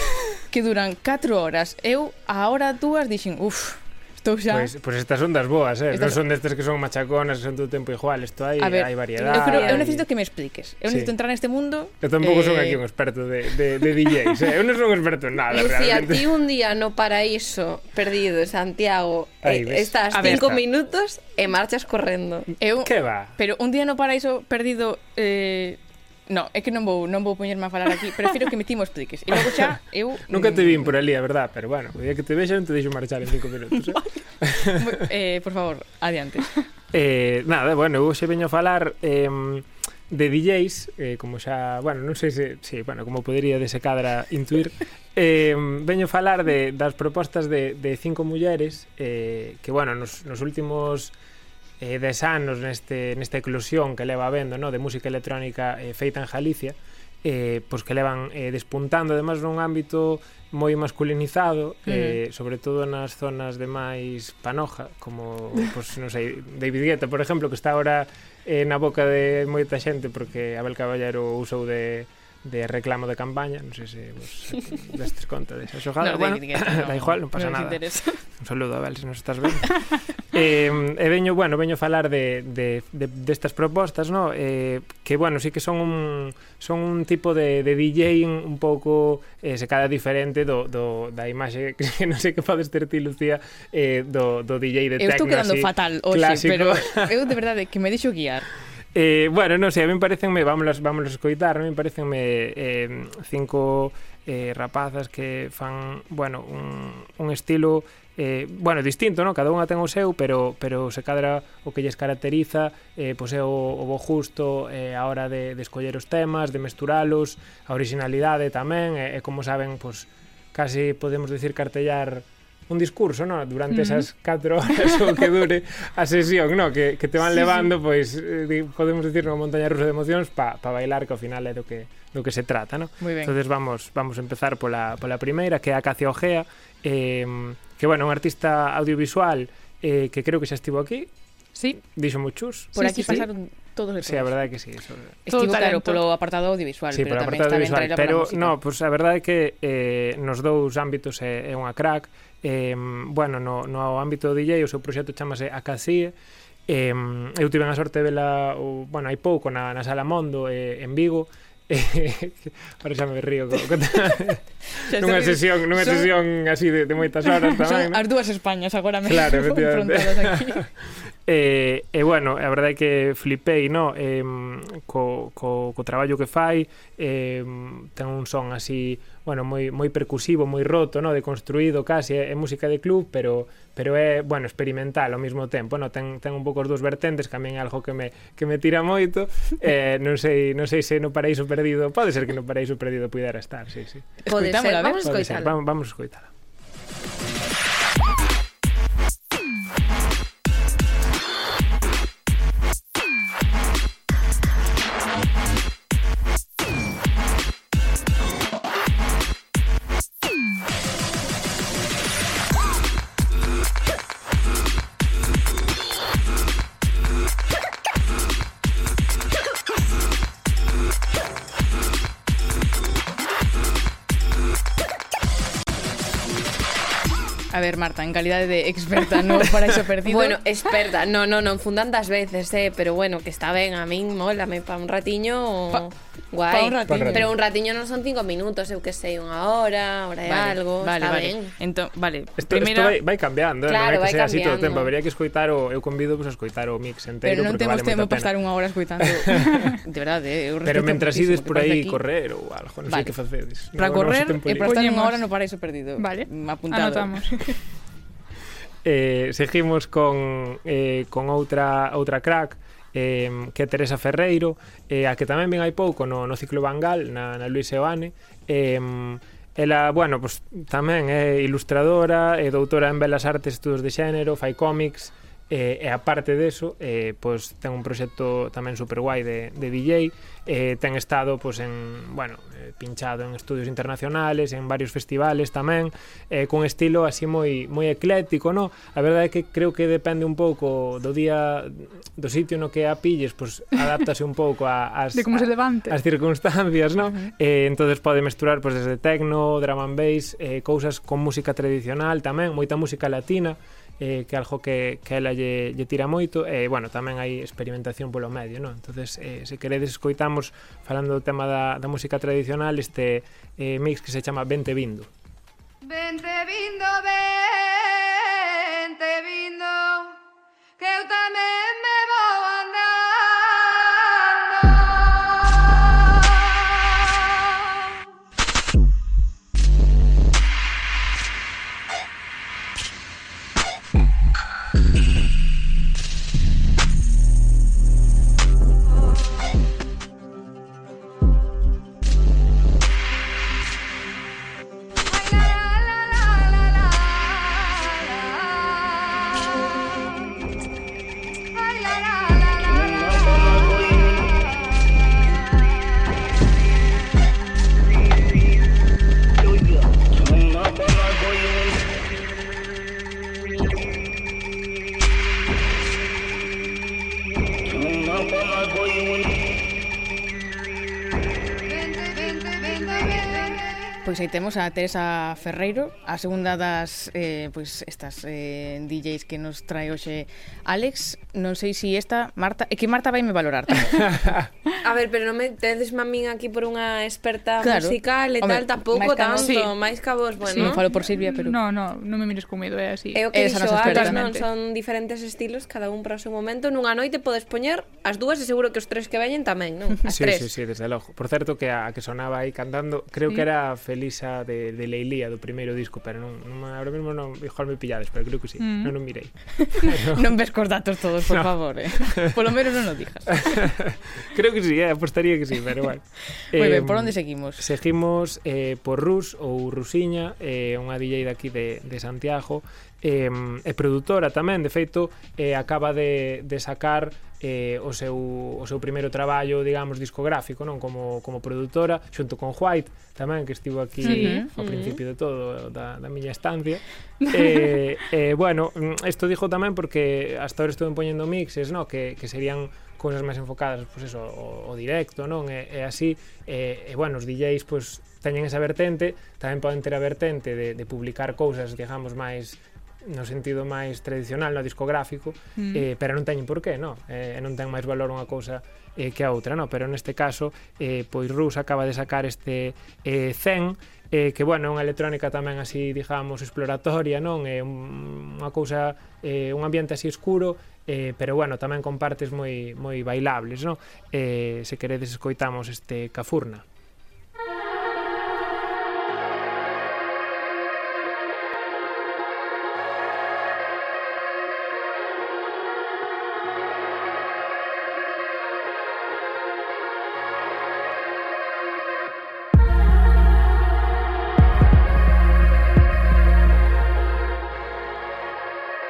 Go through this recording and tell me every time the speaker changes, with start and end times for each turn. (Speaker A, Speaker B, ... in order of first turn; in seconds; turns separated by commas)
Speaker A: 0.5-4.7, Speaker B: 4.5-10.1, Speaker A: 5.9-6.2, Speaker A: 8.6-12.8, Speaker C: 9.2-9.8, Speaker B: 10.9-11.1, Speaker B: 12.0-16.3, Speaker C: 15.5-22.5, Speaker B: 19.4-20.6, Speaker A: 20.1-20.5, Speaker A: 22.6-30.9, Speaker B: 22.8-23.3, Speaker B: 29.3-35.0, Speaker A: 34.6-36.6, Speaker B: 36.9-51.1, Speaker B: 51.8-97.2, Speaker A: 61.9-62.2, Speaker A: 76.0-78.2, Speaker A: 95.0-98.5, Speaker B: 99.0-141.1, Speaker D: 123.7-124.0, Speaker A: 127.2-127.7, Speaker A: 133.0-133.3, Speaker B: 141.7-143.3, Speaker A: 142.7-144.4, Speaker D: 142.8-143.3, Speaker B: 144.0-145.2, Speaker A: 145.2-148.6, Speaker D: 145.3-146.0, Speaker B: 146.9-156.1, Speaker B: 156.7-168.1, Speaker A: 164.8-166.2, Speaker A: 167.5-170.6, Speaker B: 169.0-170.7, Speaker B: 171.3-194.2, Speaker A: 194.2-195.1, Speaker C: 194.3-195.5, Speaker B: 195.0-196.3, Speaker A: 227.5-230.4, Speaker C: 230.1-241.5, Speaker A: 236.5-237.3, Speaker B: 236.9-237.3, Speaker A: 240.3-243.0, Speaker B: 242.4-248.4, Speaker C: 243.7-244.9, Speaker A: 247.2-252.0, Speaker B: 249.0-249.7, Speaker B: 250.6-254.8, Speaker A: 252.9-253.1, Speaker A: 253.8-257.6, Speaker D: 254.5-255.2, Speaker D: 256.0-257.3, Speaker B: 258.8-315.1, Speaker D: 295.1-296.0, Speaker E: 315.8-320.1, Speaker E: 320.8-325.2, Speaker E: 345.2-348.7, Speaker E: 351.5-354.4, Speaker E: 371.7-373.9, Speaker A: 374.0-384.3, Speaker B: 384.1-384.5, Speaker C: 384.8-390.8, Speaker A: 387.6-389.5, Speaker D: 389.4-389.7, Speaker D: 390.5-393.2, Speaker A: 390.6-391.6, Speaker C: 393.1-400.5, Speaker A: 393.3-394.2, Speaker D: 393.8-394.5, Speaker B: 400.1-410.3, Speaker D: 408.6-408.9, Speaker A: 409.6-413.5, Speaker B: 411.3-412.3, Speaker B: 413.3-476.6, Speaker A: 416.5-417.6, Speaker D: 434.0-434.5, Speaker A: 434.0-434.5, Speaker C: 434.6-435.0, Speaker D: 437.2-437.8, Speaker D: 455.6-455.9